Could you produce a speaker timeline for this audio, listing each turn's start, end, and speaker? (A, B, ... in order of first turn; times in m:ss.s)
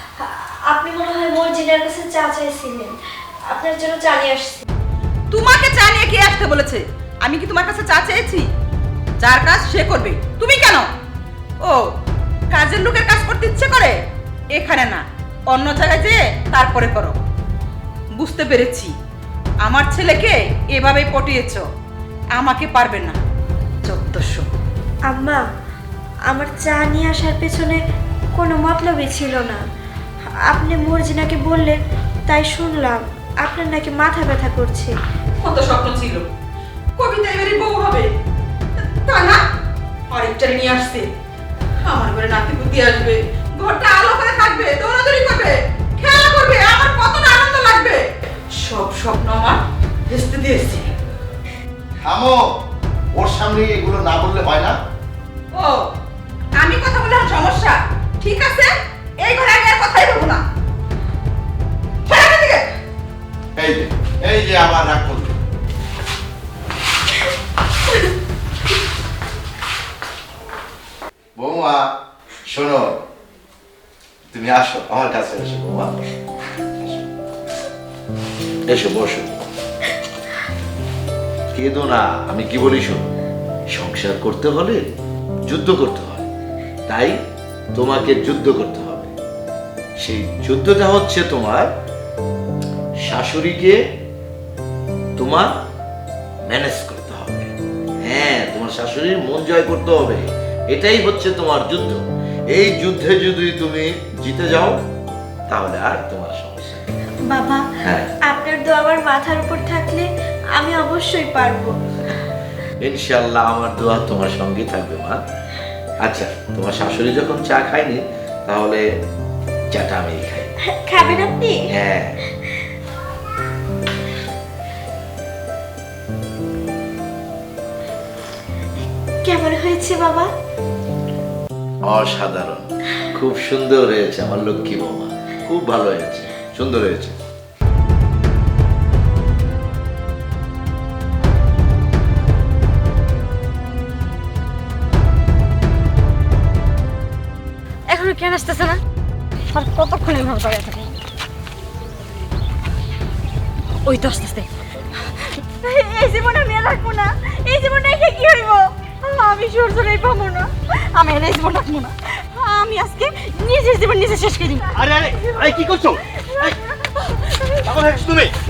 0:00.2-0:03.0 A
0:03.5-0:04.6 A
0:05.3-0:08.5 B
0:09.2-0:10.9 B
0:11.6-0:11.9 B
0:12.5-0:14.0 B
0:14.5-0:17.2 B
0:18.2-0:18.9 B
0:19.6-0:21.6 B
0:22.4-0:23.2 B
0:23.8-0:24.5 B
0:25.1-0:25.4 A
0:26.3-0:27.8 A
0:28.4-0:29.6 A
0:30.5-0:34.9 A
0:35.4-0:36.3 B
0:37.0-0:38.1 B
0:38.8-0:39.4 B
0:40.1-0:41.1 B
0:41.8-0:50.9 B
0:52.0-0:52.5 C
0:53.1-0:54.8 C
0:55.5-0:55.9 B
0:56.6-1:00.4 B
1:02.1-1:02.7 B
1:03.6-1:05.3 C
1:11.4-1:11.9 C
1:12.5-1:13.0 C
1:14.3-1:16.0 C
1:18.7-1:19.4 C
1:21.6-1:23.0 C
1:23.7-1:24.9 C
1:25.5-1:26.3 C
1:26.9-1:27.2 C
1:27.8-1:29.1 C
1:30.0-1:31.7 C
1:33.1-1:33.8 C
1:35.2-1:35.5 C
1:36.5-1:37.5 C
1:38.0-1:42.0 C
1:42.5-1:44.8 C
1:45.5-1:46.9 C
1:47.3-1:47.7 A
1:47.8-1:48.1 C
1:48.2-1:50.1 A
1:50.6-1:51.7 A
1:52.8-1:55.2 C
1:56.0-1:58.8 C
1:59.7-2:00.5 C
2:00.7-2:01.6 A
2:01.7-2:02.2 C
2:08.8-2:10.3 A
2:11.9-2:17.2 C
2:27.9-2:28.8 D
2:29.5-2:30.9 D
2:33.8-2:34.5 D
2:35.2-2:44.8 D
2:44.7-2:46.6 E
2:47.0-2:47.6 D
2:47.6-2:48.3 E